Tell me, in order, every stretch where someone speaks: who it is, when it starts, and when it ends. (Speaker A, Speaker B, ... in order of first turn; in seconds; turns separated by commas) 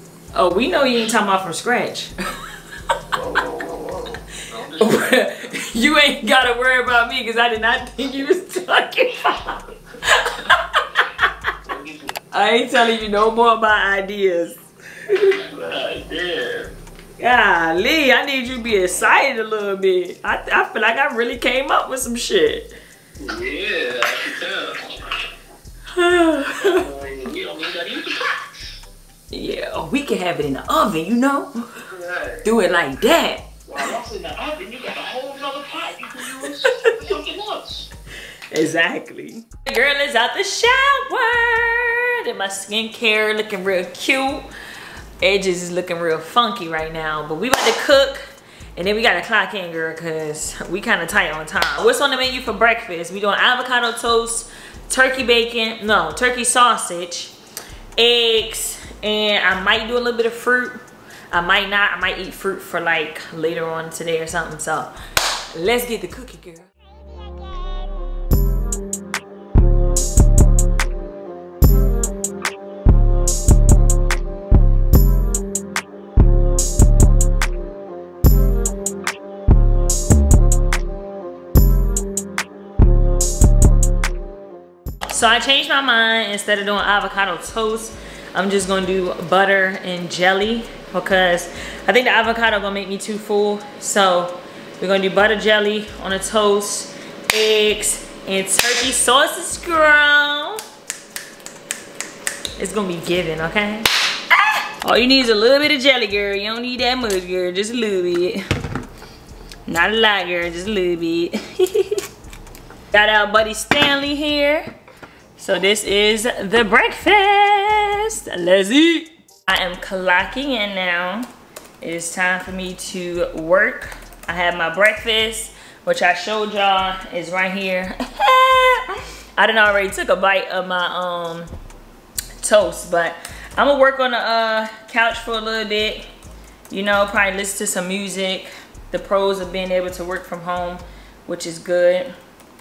Speaker A: 0.3-2.1, Speaker B: 3.1-5.3, Speaker A: 4.7-11.5, Speaker B: 11.6-12.2, Speaker A: 12.3-15.4, Speaker B: 15.1-16.7, Speaker A: 17.2-22.7, Speaker B: 23.2-25.3, Speaker A: 25.9-26.8, Speaker B: 26.6-28.8, Speaker A: 29.3-31.8, Speaker B: 31.9-32.4, Speaker A: 32.4-33.5, Speaker B: 33.7-37.9, Speaker A: 36.3-37.0, Speaker A: 38.5-44.5, Speaker A: 45.2-48.2, Speaker A: 48.8-57.3, Speaker A: 58.0-64.9, Speaker A: 65.5-66.7, Speaker A: 85.1-100.6, Speaker A: 102.6-108.4, Speaker A: 109.7-112.0, Speaker A: 112.9-114.6, Speaker A: 115.3-121.3, Speaker A: 121.8-131.5, Speaker A: 132.4-136.0, Speaker A: 136.7-142.1